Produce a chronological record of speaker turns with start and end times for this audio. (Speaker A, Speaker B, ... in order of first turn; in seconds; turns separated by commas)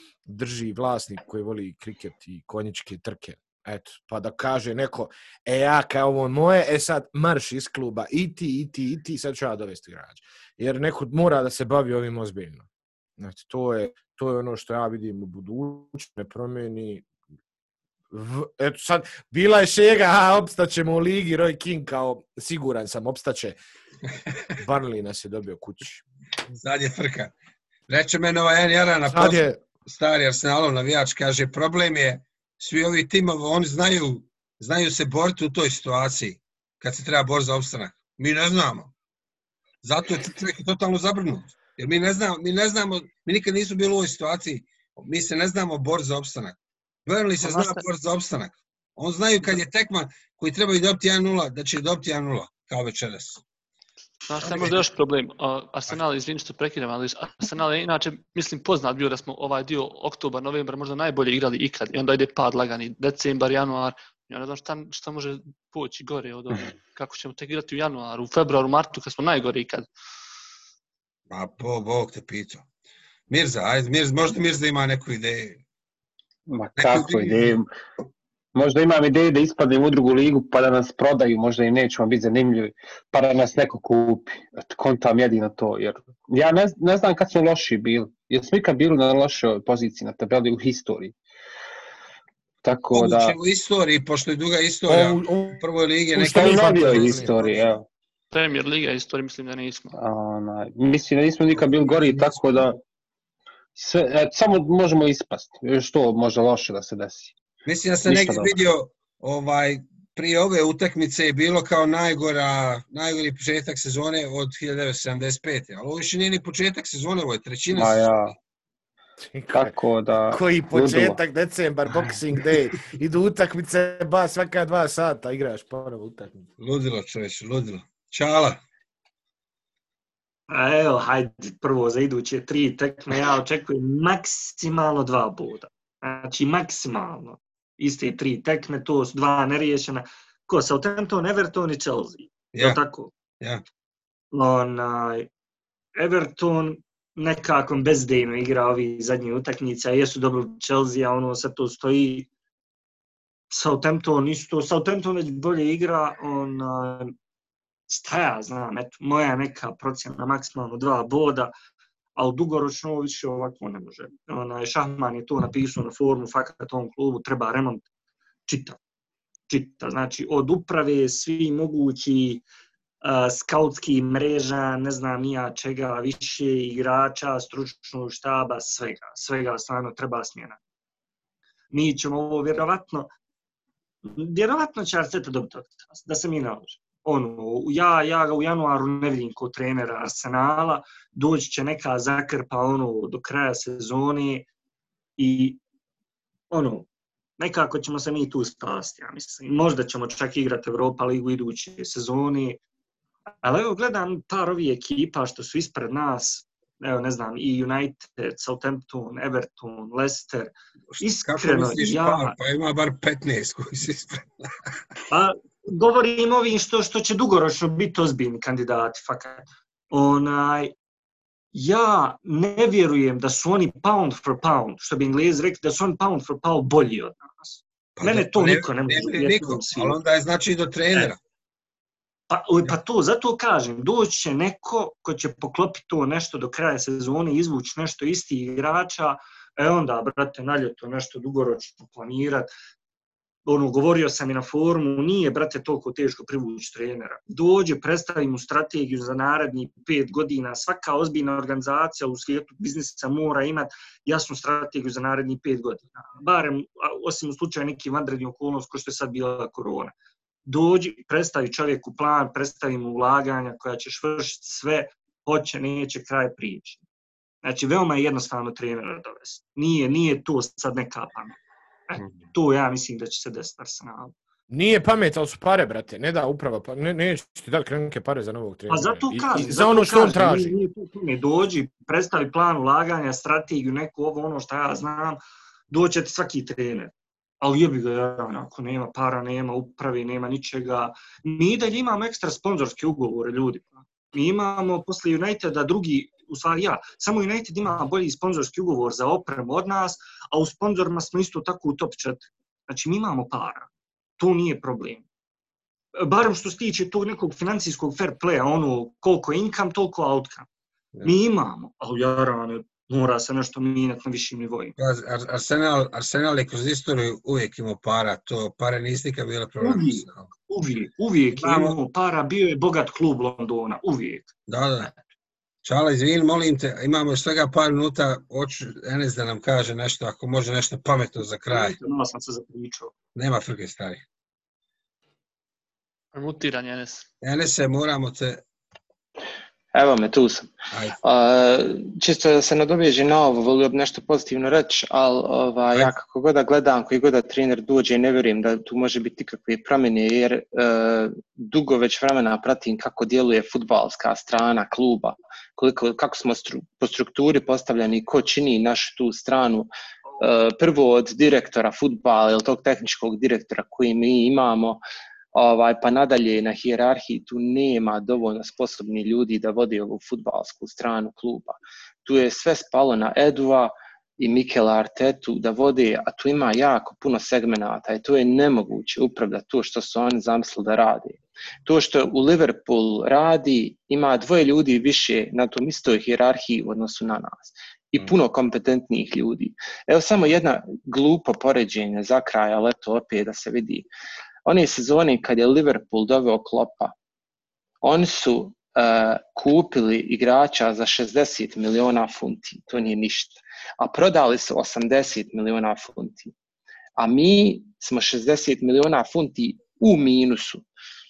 Speaker A: 0.2-12.7, Speaker A: 13.2-17.1, Speaker A: 18.1-23.6, Speaker A: 24.6-26.0, Speaker B: 26.6-27.3, Speaker B: 27.9-38.9, Speaker A: 29.1-29.6, Speaker B: 39.8-53.4, Speaker C: 47.4-47.8, Speaker C: 54.3-69.9, Speaker B: 54.4-54.8, Speaker B: 71.3-72.6, Speaker B: 73.3-75.6, Speaker D: 76.5-77.7, Speaker B: 76.8-77.6, Speaker D: 78.5-91.1, Speaker D: 92.6-93.3, Speaker B: 92.9-97.8, Speaker A: 94.9-95.6, Speaker A: 96.1-97.3, Speaker D: 96.2-97.8, Speaker C: 98.3-100.0, Speaker D: 100.0-102.8, Speaker B: 101.6-102.6, Speaker D: 103.8-107.3, Speaker B: 107.6-118.3, Speaker D: 108.0-108.5, Speaker D: 117.7-118.3, Speaker A: 119.2-119.7, Speaker D: 119.5-121.2, Speaker A: 120.3-126.5, Speaker B: 126.6-128.6, Speaker E: 130.5-143.1, Speaker B: 142.5-142.8, Speaker E: 144.3-145.3, Speaker E: 145.9-152.3, Speaker E: 153.5-157.1, Speaker E: 157.9-161.5, Speaker E: 162.2-167.8, Speaker E: 168.4-168.8, Speaker E: 169.5-172.4, Speaker E: 173.0-180.6, Speaker E: 181.7-183.1, Speaker E: 184.0-194.5, Speaker E: 195.2-195.6, Speaker E: 196.5-196.9, Speaker E: 197.4-202.6, Speaker E: 203.4-212.4, Speaker B: 210.9-214.5, Speaker E: 215.1-220.7, Speaker E: 221.5-230.0, Speaker B: 228.0-231.2, Speaker E: 232.3-242.5, Speaker E: 243.4-259.9, Speaker E: 260.4-266.8, Speaker E: 267.4-271.4, Speaker E: 271.9-274.1, Speaker A: 274.5-280.6, Speaker E: 278.7-305.0, Speaker E: 305.9-310.5, Speaker E: 311.0-314.8, Speaker B: 314.8-320.3, Speaker E: 319.6-324.3, Speaker B: 321.4-321.8, Speaker B: 324.5-324.9, Speaker B: 325.6-331.8, Speaker E: 331.5-332.9, Speaker B: 333.1-334.0, Speaker C: 336.1-337.1, Speaker B: 337.2-338.4, Speaker F: 339.7-340.5, Speaker B: 340.7-341.0, Speaker F: 341.0-364.8, Speaker F: 365.3-393.9, Speaker F: 394.4-396.9, Speaker F: 397.8-406.3, Speaker F: 407.0-410.6